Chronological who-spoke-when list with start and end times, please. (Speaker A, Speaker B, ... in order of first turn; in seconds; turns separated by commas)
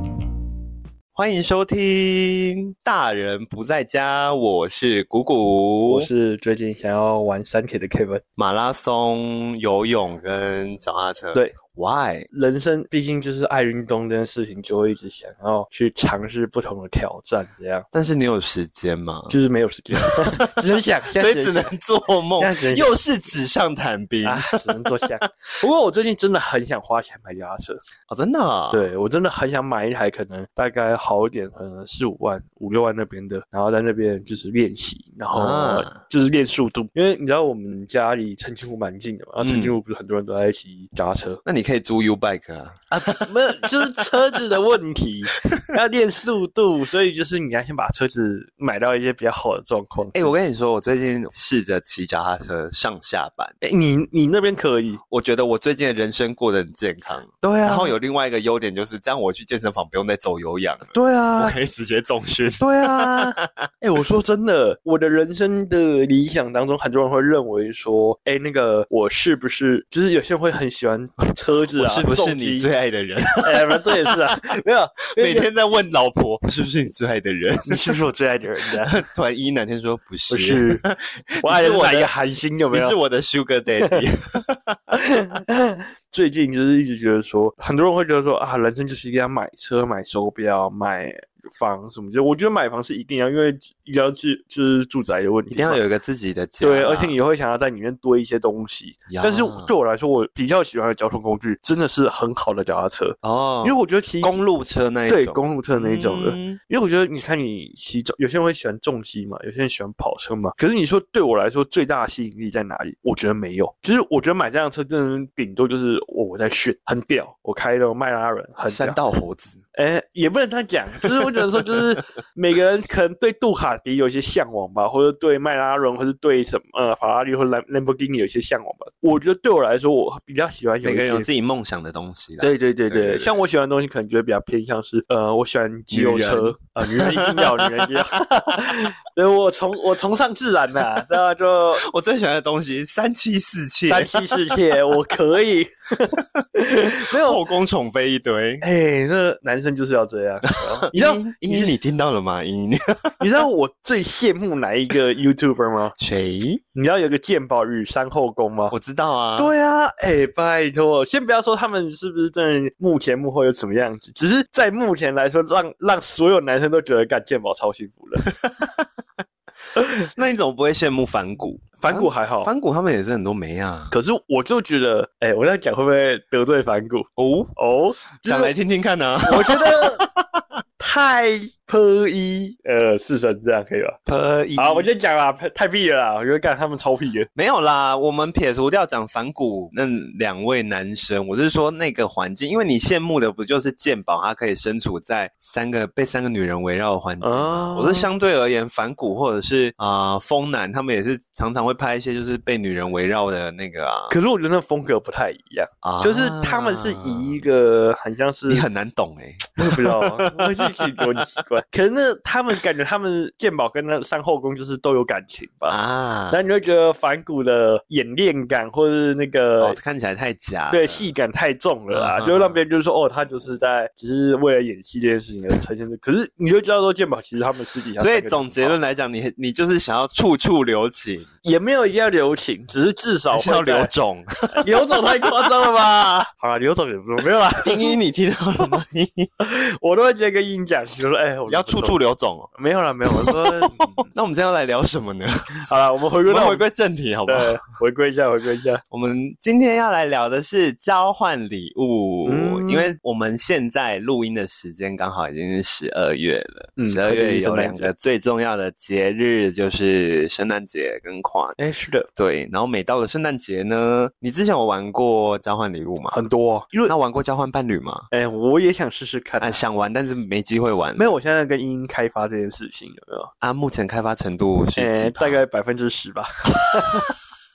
Speaker A: 1.1-6.1, Speaker B: 5.9-8.2, Speaker A: 8.4-12.3, Speaker B: 12.3-17.9, Speaker A: 17.9-19.4, Speaker B: 19.3-21.7, Speaker A: 20.0-25.0, Speaker B: 22.4-22.9, Speaker B: 24.2-27.8, Speaker A: 28.1-28.8, Speaker B: 28.7-41.4, Speaker A: 35.3-36.0, Speaker A: 39.4-39.7, Speaker A: 41.5-43.3, Speaker B: 42.9-50.3, Speaker A: 50.1-53.6, Speaker B: 53.6-55.0, Speaker A: 55.1-63.5, Speaker B: 57.4-58.0, Speaker B: 60.9-61.6, Speaker B: 62.6-72.7, Speaker A: 71.7-74.3, Speaker B: 73.4-75.5, Speaker A: 75.2-77.9, Speaker B: 77.7-79.0, Speaker A: 78.9-82.1, Speaker B: 80.3-80.8, Speaker B: 81.4-83.0, Speaker A: 82.7-84.9, Speaker B: 84.9-95.8, Speaker A: 95.5-97.2, Speaker B: 96.6-104.4, Speaker A: 99.1-99.7, Speaker A: 103.2-106.6, Speaker B: 105.1-119.0, Speaker A: 118.7-119.6, Speaker B: 119.8-131.3, Speaker A: 121.0-121.8, Speaker A: 130.8-133.3, Speaker B: 132.4-141.8, Speaker A: 135.9-138.0, Speaker A: 141.8-144.8, Speaker B: 143.9-147.4, Speaker A: 146.1-146.4, Speaker A: 147.1-148.6, Speaker B: 148.6-151.7, Speaker A: 150.7-153.2, Speaker B: 153.2-155.9, Speaker A: 156.0-156.6, Speaker B: 156.8-158.7, Speaker A: 158.7-159.5, Speaker B: 159.4-168.3, Speaker A: 168.3-168.9, Speaker B: 169.8-170.1, Speaker A: 170.1-173.9, Speaker B: 171.8-172.5, Speaker B: 173.9-178.5, Speaker A: 177.2-177.5, Speaker A: 178.2-180.4, Speaker B: 179.2-180.1, Speaker B: 180.8-184.0, Speaker A: 184.1-184.9, Speaker B: 184.6-187.3, Speaker A: 187.4-204.2, Speaker B: 197.2-198.1, Speaker B: 204.1-208.7, Speaker A: 205.8-207.4, Speaker A: 208.5-211.2, Speaker B: 209.6-215.8, Speaker A: 215.7-216.4, Speaker B: 216.3-219.8, Speaker A: 219.6-221.1, Speaker B: 220.7-228.8, Speaker A: 221.9-222.6, Speaker A: 228.0-231.3, Speaker B: 231.4-233.9, Speaker A: 233.3-236.3, Speaker B: 234.5-238.0, Speaker A: 237.7-239.3, Speaker B: 239.4-242.0, Speaker A: 241.5-242.5, Speaker B: 242.5-244.1, Speaker A: 243.1-245.5, Speaker B: 245.5-246.7, Speaker A: 246.3-247.6, Speaker B: 247.3-248.8, Speaker A: 248.9-261.6, Speaker B: 252.2-253.0, Speaker B: 256.8-257.9, Speaker B: 261.6-262.1, Speaker A: 262.2-266.2, Speaker B: 266.1-266.9, Speaker A: 266.9-268.1, Speaker B: 268.1-269.6, Speaker A: 269.4-271.1, Speaker B: 271.0-273.3, Speaker A: 273.4-275.4, Speaker B: 274.8-277.1, Speaker A: 276.7-277.0